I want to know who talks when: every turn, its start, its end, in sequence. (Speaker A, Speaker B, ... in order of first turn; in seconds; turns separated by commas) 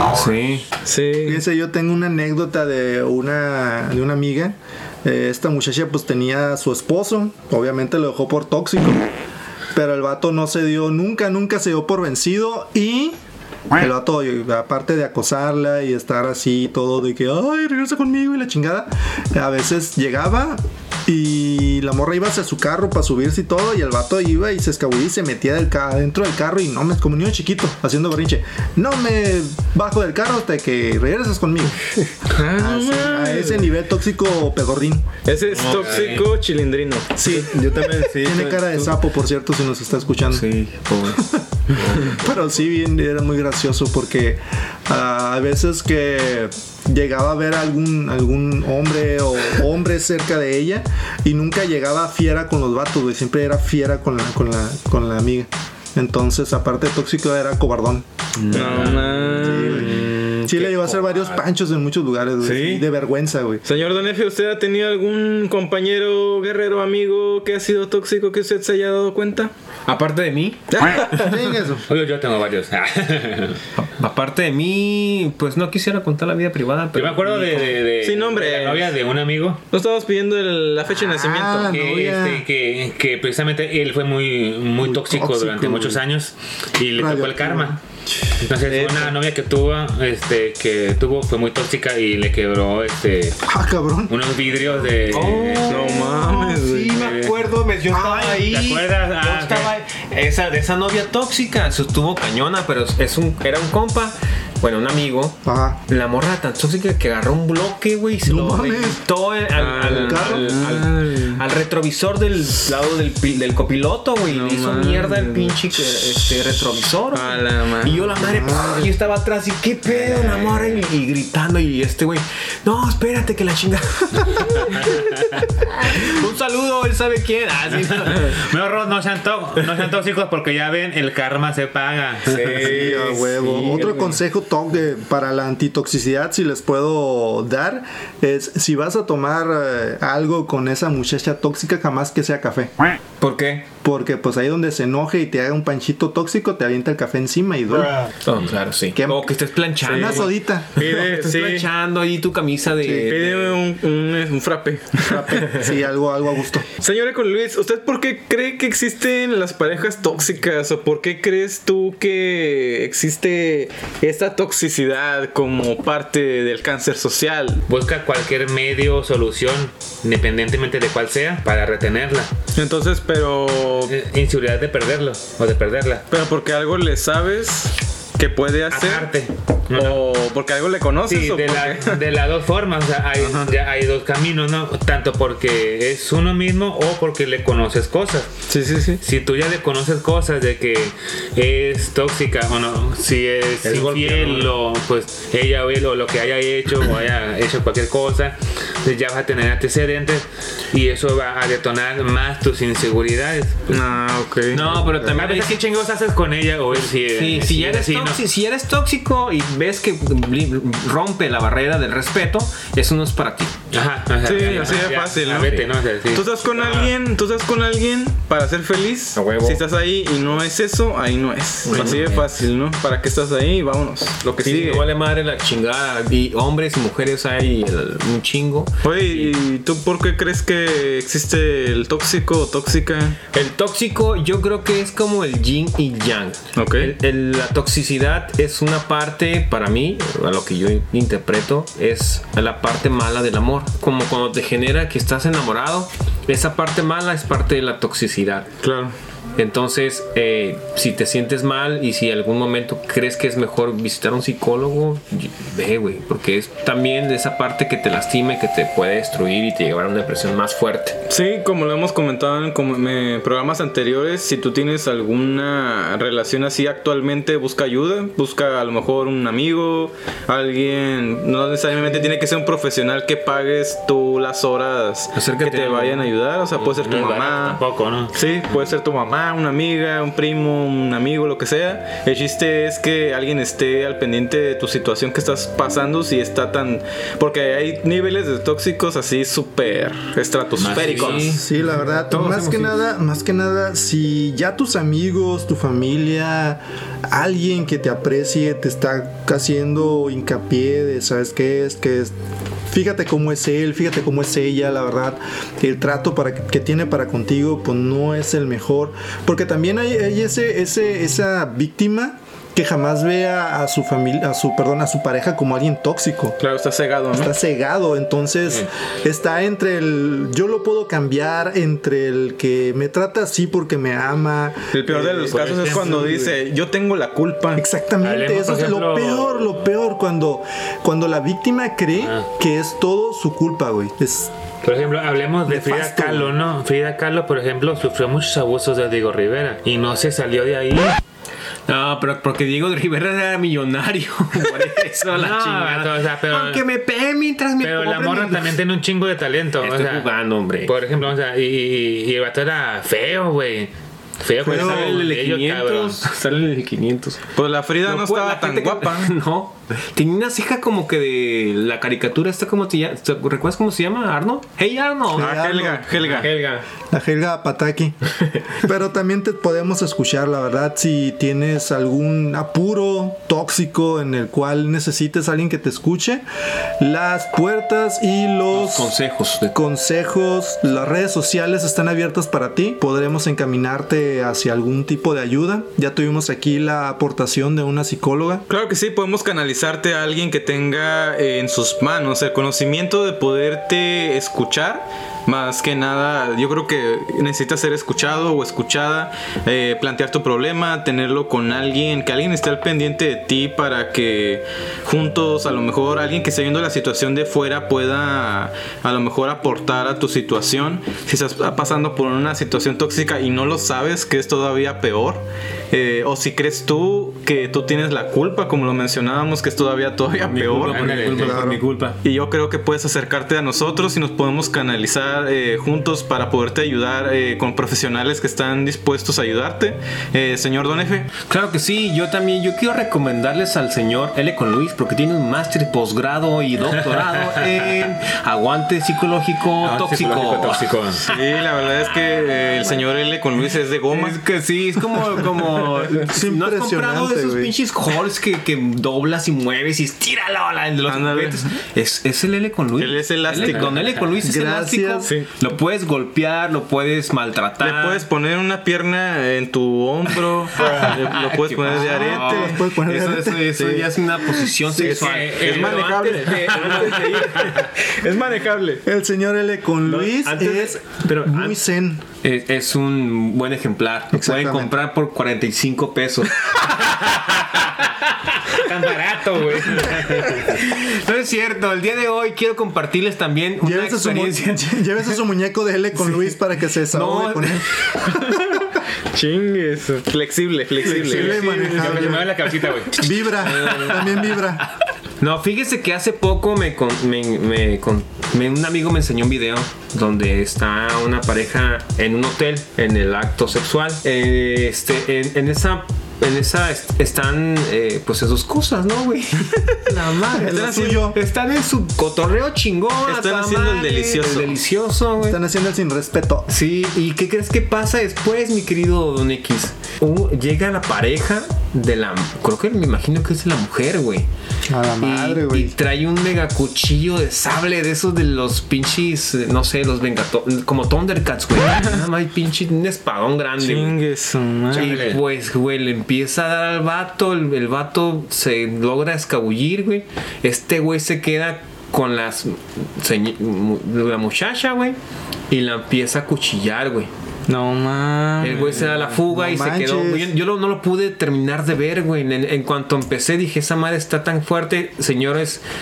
Speaker A: 0.1-0.7, Speaker B: 0.8-1.4, Speaker C: 1.2-9.1, Speaker C: 9.7-13.2, Speaker C: 13.8-31.9, Speaker B: 32.3-33.7, Speaker C: 32.5-35.1, Speaker B: 35.2-37.5, Speaker A: 35.5-36.2, Speaker D: 35.6-36.2, Speaker C: 37.1-40.5, Speaker A: 37.5-39.0, Speaker A: 40.3-42.2, Speaker C: 41.1-58.0, Speaker D: 58.4-60.2, Speaker B: 58.5-59.9, Speaker C: 59.4-63.6, Speaker A: 59.5-61.4, Speaker A: 62.4-62.9, Speaker B: 63.6-69.5, Speaker A: 69.9-71.3, Speaker B: 70.7-71.2, Speaker C: 71.1-71.8, Speaker D: 71.9-73.6, Speaker A: 73.8-77.8, Speaker D: 76.9-79.6, Speaker B: 78.0-78.9, Speaker B: 79.7-81.7, Speaker C: 81.0-82.5, Speaker D: 81.6-87.8, Speaker C: 84.8-86.0, Speaker C: 86.9-87.8, Speaker D: 88.4-93.4, Speaker B: 88.7-89.1, Speaker C: 93.5-94.1, Speaker D: 94.1-95.9, Speaker A: 95.1-128.5, Speaker B: 95.7-96.9, Speaker D: 96.9-97.4, Speaker C: 97.9-98.5, Speaker D: 98.4-99.7, Speaker C: 105.4-105.8, Speaker C: 108.2-109.0, Speaker B: 109.5-111.4, Speaker C: 109.8-110.6, Speaker B: 114.3-116.2, Speaker B: 117.1-118.2, Speaker C: 118.2-118.9, Speaker D: 124.7-125.4, Speaker D: 128.1-132.7, Speaker A: 132.3-134.2, Speaker C: 132.5-142.7, Speaker A: 143.2-143.7, Speaker C: 143.8-147.9, Speaker A: 148.2-153.6, Speaker C: 148.9-149.3, Speaker B: 149.8-151.7, Speaker C: 149.9-150.7, Speaker C: 152.8-153.1, Speaker B: 153.1-155.4, Speaker C: 155.0-156.7, Speaker B: 156.8-167.6, Speaker D: 167.7-172.3, Speaker B: 172.5-173.9, Speaker D: 173.9-176.0, Speaker B: 176.1-179.1, Speaker D: 178.7-180.0, Speaker B: 179.7-182.0, Speaker D: 181.1-188.3, Speaker B: 183.2-183.5, Speaker B: 188.5-189.0, Speaker D: 189.0-203.8, Speaker B: 193.6-194.5, Speaker B: 203.7-204.7, Speaker A: 204.5-205.6, Speaker D: 205.0-208.2, Speaker A: 206.7-213.6, Speaker D: 213.7-216.9, Speaker B: 214.2-224.9, Speaker A: 219.1-219.6, Speaker A: 221.7-222.2, Speaker D: 221.7-222.2, Speaker A: 224.4-229.3, Speaker B: 228.8-233.2, Speaker A: 233.3-248.5, Speaker B: 236.6-236.9, Speaker B: 248.6-248.9, Speaker A: 249.4-261.0, Speaker B: 261.1-277.6, Speaker A: 275.1-276.1, Speaker D: 276.6-278.1, Speaker B: 278.1-291.4, Speaker D: 290.6-291.4, Speaker A: 290.7-292.8, Speaker C: 291.3-302.1, Speaker C: 302.7-316.4, Speaker B: 316.4-317.3, Speaker C: 317.1-326.3, Speaker B: 324.7-327.6, Speaker D: 325.3-326.2, Speaker C: 327.6-334.3, Speaker D: 328.0-329.5, Speaker D: 334.6-341.0, Speaker C: 335.5-336.3, Speaker A: 341.7-348.6, Speaker D: 345.1-346.6, Speaker D: 347.6-350.1, Speaker A: 349.6-350.8, Speaker D: 350.6-356.0, Speaker A: 354.4-357.2, Speaker C: 354.4-355.0, Speaker B: 357.3-359.1, Speaker A: 357.8-365.4, Speaker C: 365.1-365.9, Speaker B: 365.1-366.3, Speaker A: 365.9-366.6, Speaker C: 366.9-367.9, Speaker C: 368.6-376.2, Speaker C: 376.8-378.9, Speaker A: 378.5-379.6, Speaker C: 379.5-388.4, Speaker B: 388.5-420.9, Speaker A: 420.2-422.0, Speaker D: 420.6-421.4, Speaker C: 421.1-421.6, Speaker B: 422.0-431.1, Speaker A: 431.3-441.1, Speaker D: 436.9-437.4, Speaker D: 439.6-441.1, Speaker B: 441.1-444.2, Speaker A: 443.9-458.1, Speaker C: 446.0-447.5, Speaker B: 450.9-451.6, Speaker B: 452.8-453.8, Speaker C: 454.2-455.1, Speaker B: 457.6-462.6, Speaker A: 460.6-467.5, Speaker C: 461.7-463.7, Speaker B: 463.6-463.8, Speaker C: 464.4-465.0, Speaker D: 464.8-467.6, Speaker B: 464.9-468.8, Speaker C: 468.8-472.0, Speaker A: 469.8-471.6, Speaker A: 472.2-476.7, Speaker C: 474.1-474.8, Speaker D: 476.9-477.7, Speaker D: 478.5-480.6, Speaker A: 479.8-484.9, Speaker C: 483.6-488.6, Speaker A: 486.9-488.1, Speaker B: 489.1-492.0, Speaker C: 490.8-492.3, Speaker D: 490.9-493.0, Speaker C: 492.9-494.6, Speaker A: 493.3-494.6, Speaker A: 495.2-515.4, Speaker C: 510.3-511.2, Speaker B: 510.4-511.1, Speaker B: 513.0-514.5, Speaker C: 515.2-516.5, Speaker A: 516.5-524.3, Speaker C: 524.7-525.7, Speaker A: 525.0-534.0, Speaker B: 533.6-535.0, Speaker D: 534.7-535.2, Speaker A: 534.7-545.0, Speaker A: 545.5-547.1, Speaker B: 547.5-549.1, Speaker A: 548.4-555.6, Speaker C: 549.2-550.3